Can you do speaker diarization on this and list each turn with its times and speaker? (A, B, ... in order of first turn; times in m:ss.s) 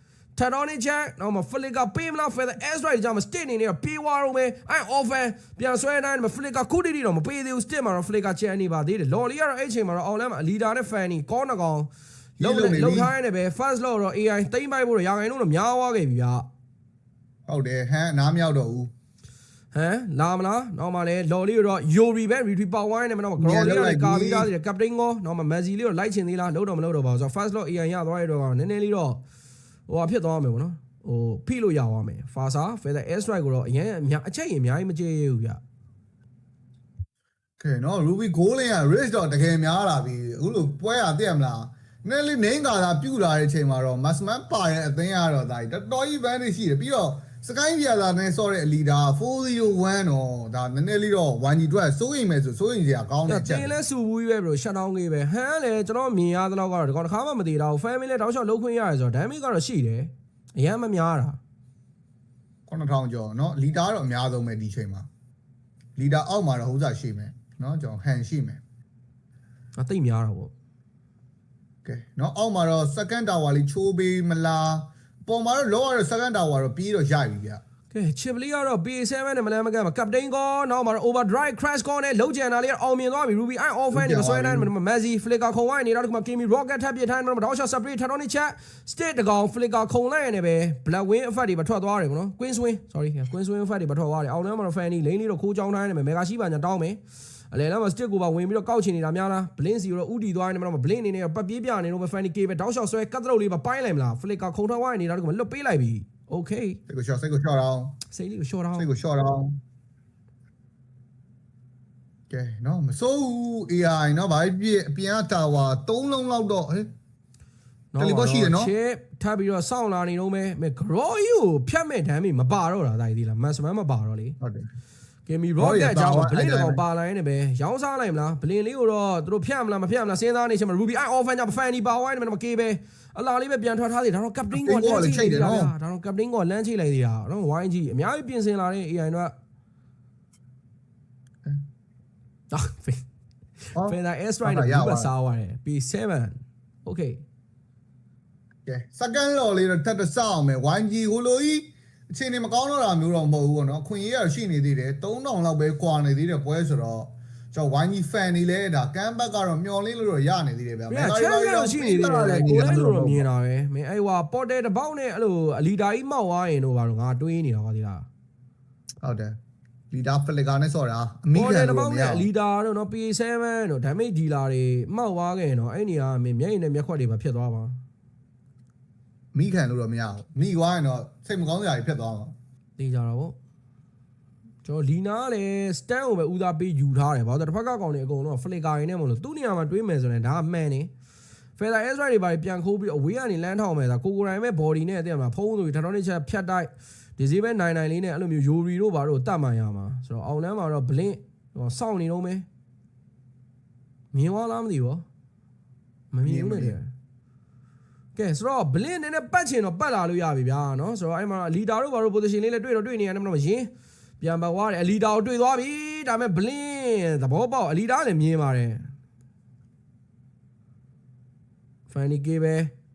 0:00.4-0:16.4 A
0:12.4-0:13.1 B
0:17.5-0:18.9 B
0:19.7-0:29.2 A
0:23.4-0:24.5 B
0:29.9-0:35.6 A
0:37.6-0:53.8 B
0:53.3-1:01.4 A
1:02.7-1:05.1 B
1:06.0-1:08.6 B
1:09.8-1:10.5 A
1:11.8-1:17.6 B
1:17.9-1:37.0 A
1:23.9-1:24.7 B
1:37.5-1:46.8 A
1:46.9-1:48.0 B
1:48.1-1:48.9 A
1:48.8-1:49.6 B
1:52.3-1:56.9 B
1:57.9-2:04.4 A
1:58.0-1:58.7 B
2:04.4-2:04.6 B
2:05.3-2:19.3 A
2:05.6-2:06.8 B
2:14.5-2:15.7 B
2:22.5-2:23.0 A
2:23.8-2:25.1 B
2:23.8-2:27.2 A
2:28.6-2:43.2 B
2:40.9-2:48.0 A
2:49.0-2:49.3 B
2:49.9-2:52.2 B
2:51.3-2:57.8 A
2:59.3-3:02.3 B
3:02.8-3:03.4 A
3:04.6-3:10.9 A
3:11.6-3:22.4 A
3:24.1-3:25.0 A
3:26.1-3:26.9 A
3:26.2-3:26.8 B
3:28.2-3:33.7 A
3:34.2-3:38.9 A
3:41.9-3:42.7 A